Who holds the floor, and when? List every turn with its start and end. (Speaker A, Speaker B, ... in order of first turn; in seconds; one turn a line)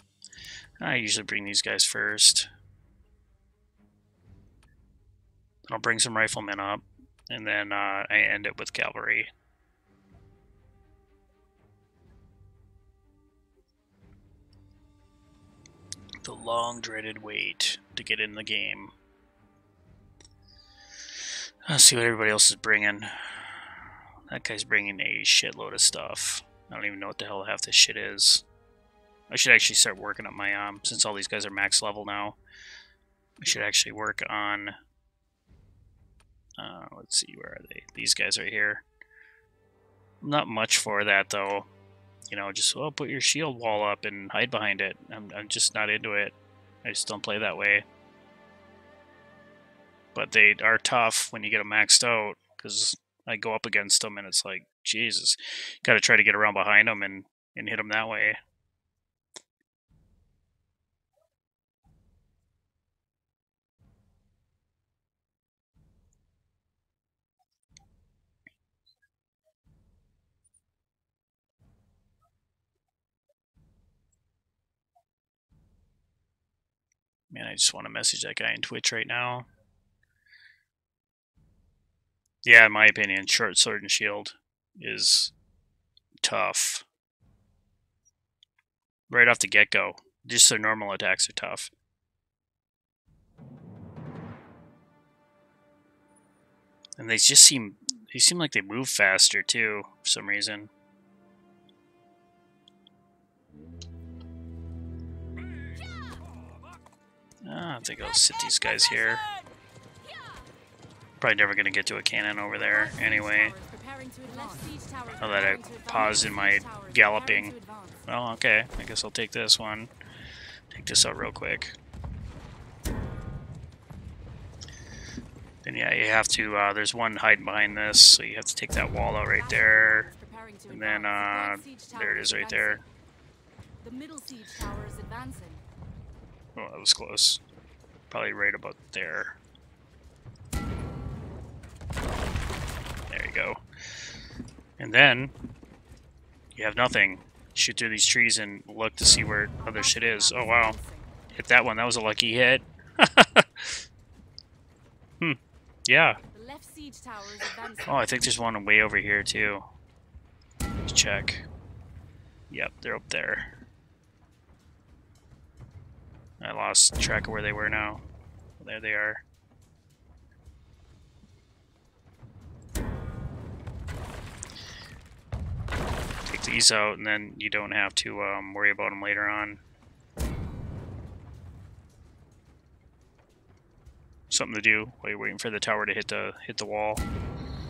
Speaker A: 0.8-2.5
Speaker A: 5.7-9.3
Speaker A: 16.2-18.9
Speaker A: 21.7-23.8
Speaker A: 24.3-28.4
Speaker A: 29.3-32.4
Speaker A: 33.4-34.8
Speaker A: 36.6-38.8
Speaker A: 40.2-41.7
Speaker A: 42.3-47.8
Speaker A: 50.1-58.4
Speaker A: 77.3-79.5
Speaker A: 82.4-85.3
Speaker A: 86.2-86.8
Speaker A: 89.1-91.7
Speaker A: 97.0-100.7
Speaker A: 107.4-109.3
Speaker A: 111.2-113.5
Speaker B: 113.0-115.1
Speaker A: 115.2-117.5
Speaker A: 118.1-119.9
Speaker A: 120.7-121.8
Speaker A: 125.6-130.1
Speaker B: 129.6-132.8
Speaker A: 130.7-132.8
Speaker B: 133.8-135.6
Speaker A: 136.6-137.4
Speaker A: 138.1-139.4
Speaker A: 143.1-143.6
Speaker A: 144.8-145.3
Speaker A: 146.5-150.8
Speaker B: 150.3-151.0
Speaker A: 151.3-153.8
Speaker A: 155.2-156.2
Speaker B: 156.3-157.8
Speaker A: 157.8-159.6
Speaker A: 160.8-161.4
Speaker A: 162.5-163.5
Speaker A: 166.4-168.0
Speaker A: 168.6-169.2
Speaker A: 176.3-179.6
Speaker A: 184.3-187.0